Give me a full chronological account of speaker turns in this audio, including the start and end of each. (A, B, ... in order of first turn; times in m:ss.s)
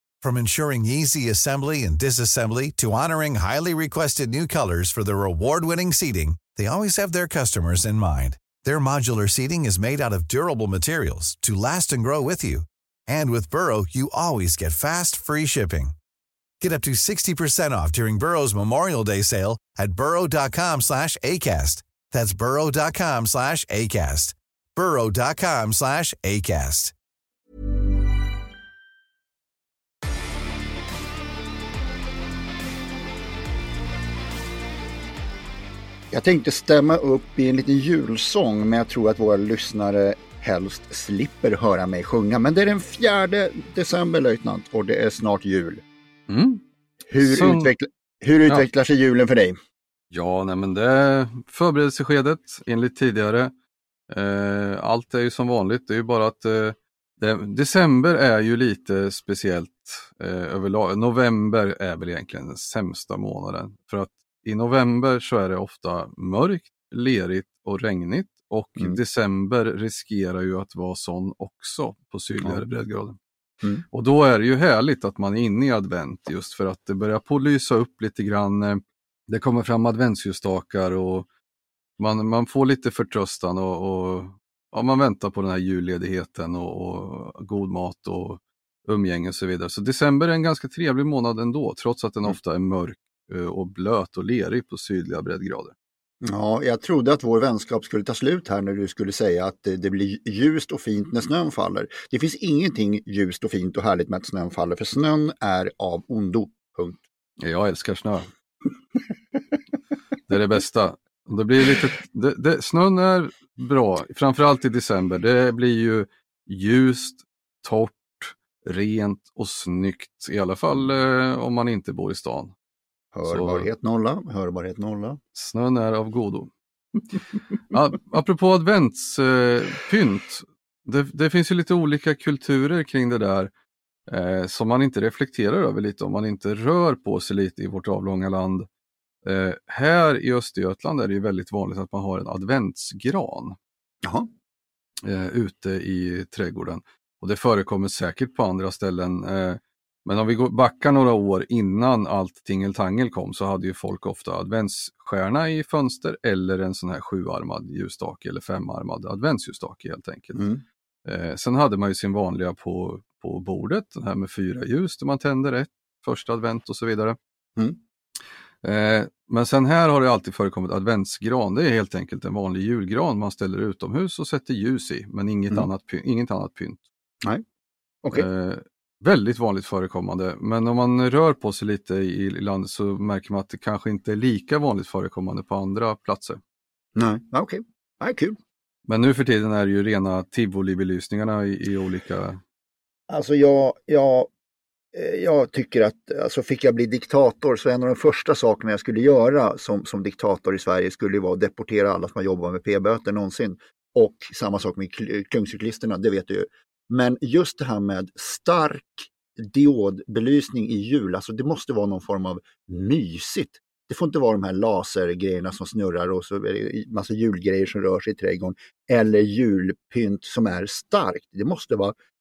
0:00.2-0:16.0 A
0:16.6-0:26.9 A
0:36.1-0:45.8 B
0:46.3-0:46.6 C
0:47.1-0:49.6 B
0:47.2-0:47.7 C
0:50.1-0:53.5 C
0:54.1-1:13.2 C
1:13.9-1:21.3 C
1:22.0-1:35.7 C
1:36.2-1:47.0 B
1:47.4-1:48.3 C
1:50.3-2:02.5 C
2:03.1-2:05.2 B
2:03.2-2:03.7 C
2:05.3-2:06.5 C
2:07.7-2:13.5 C
2:14.1-2:18.7 C
2:19.2-2:23.6 C
2:25.0-2:40.5 C
2:40.3-2:40.6 B
2:41.0-2:47.2 C
2:48.6-2:56.8 C
2:58.1-3:06.4 C
3:07.0-3:08.4 B
3:08.9-3:12.4 C
3:13.1-3:14.3 B
3:14.9-3:41.9 B